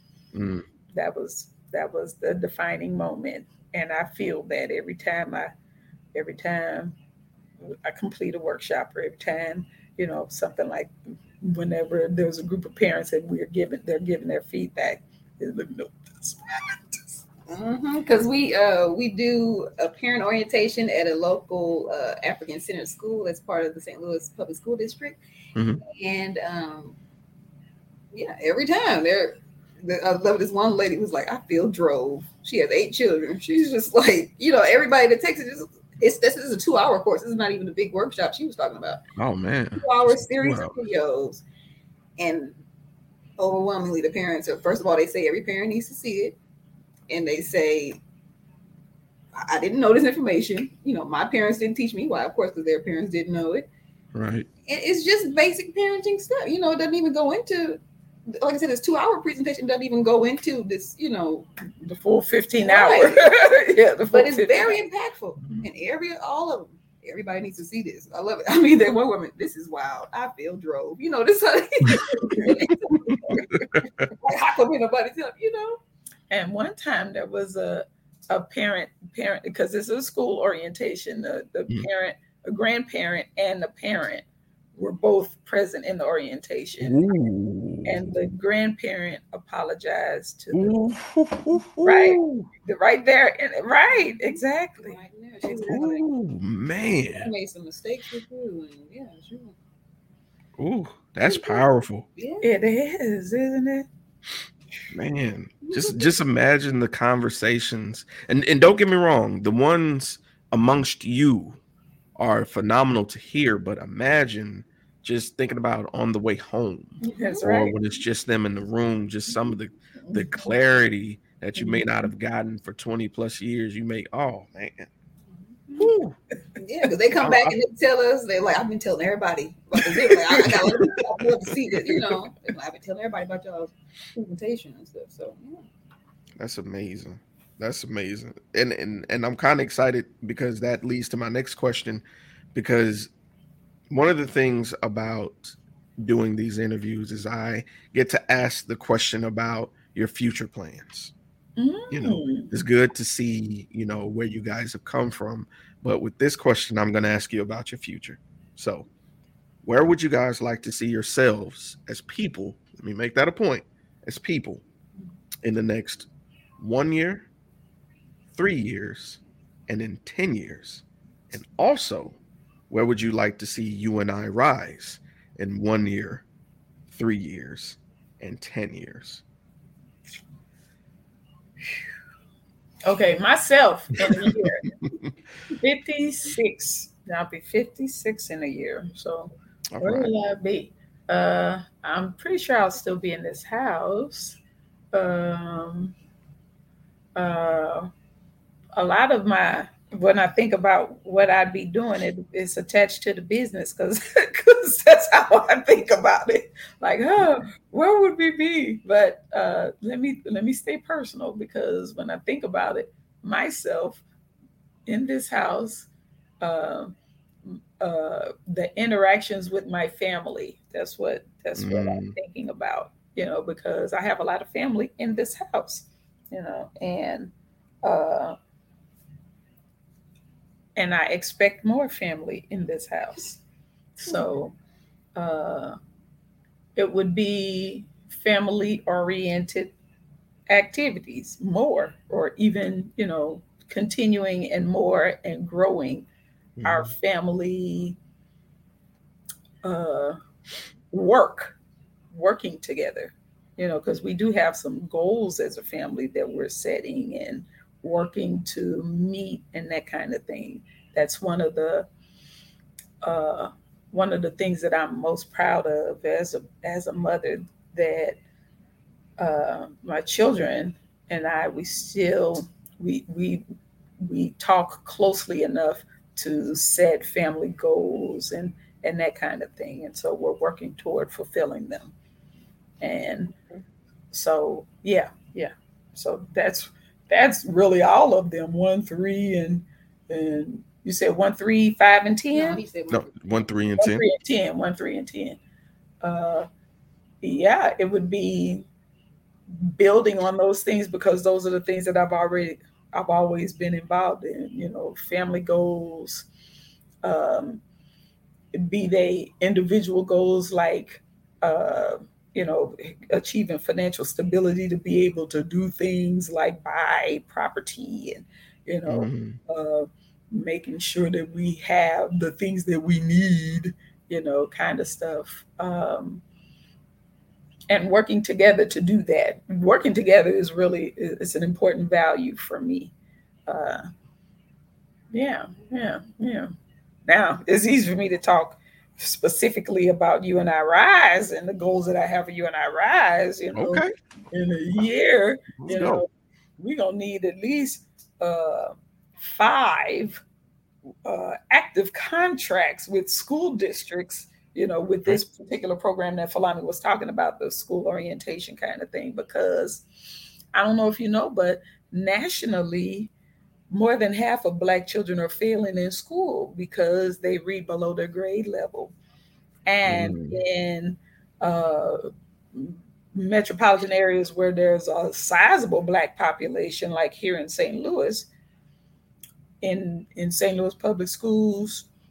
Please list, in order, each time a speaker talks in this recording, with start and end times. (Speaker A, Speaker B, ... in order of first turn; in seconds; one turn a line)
Speaker A: 0.3-0.7
Speaker B: 0.9-5.5
Speaker B: 6.1-7.0
Speaker B: 7.6-17.2
Speaker C: 17.5-25.2
Speaker A: 25.6-25.8
Speaker C: 25.9-26.9
Speaker C: 28.1-39.0
Speaker A: 39.2-40.8
Speaker C: 39.8-41.4
Speaker C: 42.2-42.5
Speaker C: 43.4-46.4
Speaker C: 47.1-48.0
Speaker C: 49.4-53.7
Speaker A: 54.1-54.5
Speaker C: 54.7-57.8
Speaker C: 58.4-61.5
Speaker B: 61.8-64.8
Speaker C: 62.6-63.3
Speaker C: 64.1-75.8
Speaker A: 73.1-73.9
Speaker B: 76.3-84.2
Speaker B: 84.8-87.1
Speaker A: 86.8-88.2
Speaker B: 87.8-91.0
Speaker A: 90.5-92.5
Speaker B: 91.8-96.0
Speaker C: 93.9-96.0
Speaker A: 95.7-97.3
Speaker C: 97.1-99.5
Speaker A: 100.6-102.1
Speaker C: 101.3-101.6
Speaker C: 102.2-102.5
Speaker B: 102.4-103.9
Speaker A: 104.9-111.6
Speaker C: 105.6-106.1
Speaker A: 112.2-124.9
Speaker B: 117.0-117.7
Speaker C: 117.0-117.7
Speaker C: 125.5-125.9
Speaker A: 125.8-126.2
Speaker C: 126.6-135.7
Speaker A: 127.2-127.6
Speaker A: 129.9-130.8
Speaker A: 131.7-132.3
Speaker A: 136.4-143.1
Speaker A: 143.9-151.1
Speaker B: 151.6-152.5
Speaker A: 151.9-158.9
Speaker A: 159.6-164.6
Speaker A: 165.4-166.1
Speaker A: 166.6-167.3
Speaker A: 168.3-172.2
Speaker A: 172.7-176.2
Speaker A: 176.9-179.2
Speaker B: 182.8-184.7
Speaker B: 185.6-194.4
Speaker A: 189.7-190.1
Speaker B: 194.9-195.9
Speaker B: 197.2-197.9
Speaker B: 198.8-214.0
Speaker B: 214.9-215.9
Speaker B: 216.4-216.9
Speaker B: 217.5-227.3
Speaker A: 221.6-222.2
Speaker B: 227.8-228.4
Speaker B: 230.8-233.4
Speaker B: 234.0-234.6
Speaker B: 235.2-235.8
Speaker B: 236.8-239.7
Speaker B: 240.5-246.1
Speaker A: 246.6-246.9
Speaker B: 246.6-248.0
Speaker B: 249.6-250.2
Speaker B: 250.9-251.6
Speaker B: 252.1-261.9
Speaker B: 263.0-268.2
Speaker B: 269.2-273.4
Speaker B: 274.0-281.9
Speaker B: 282.8-283.4
Speaker B: 284.1-292.6
Speaker C: 292.3-293.4
Speaker A: 292.9-294.1
Speaker B: 293.8-295.4
Speaker B: 296.0-296.5
Speaker B: 297.2-298.7
Speaker B: 299.6-306.3
Speaker B: 307.0-307.6
Speaker B: 308.5-326.2
Speaker A: 318.9-319.4
Speaker B: 327.7-332.9
Speaker B: 333.5-333.9
Speaker B: 335.1-336.5
Speaker B: 337.1-346.1
Speaker A: 343.6-343.9
Speaker A: 345.6-346.0
Speaker B: 346.6-350.2
Speaker B: 351.1-359.8
Speaker B: 360.5-363.1
Speaker B: 363.7-368.9
Speaker B: 369.7-378.3
Speaker A: 369.9-370.4
Speaker B: 379.6-381.9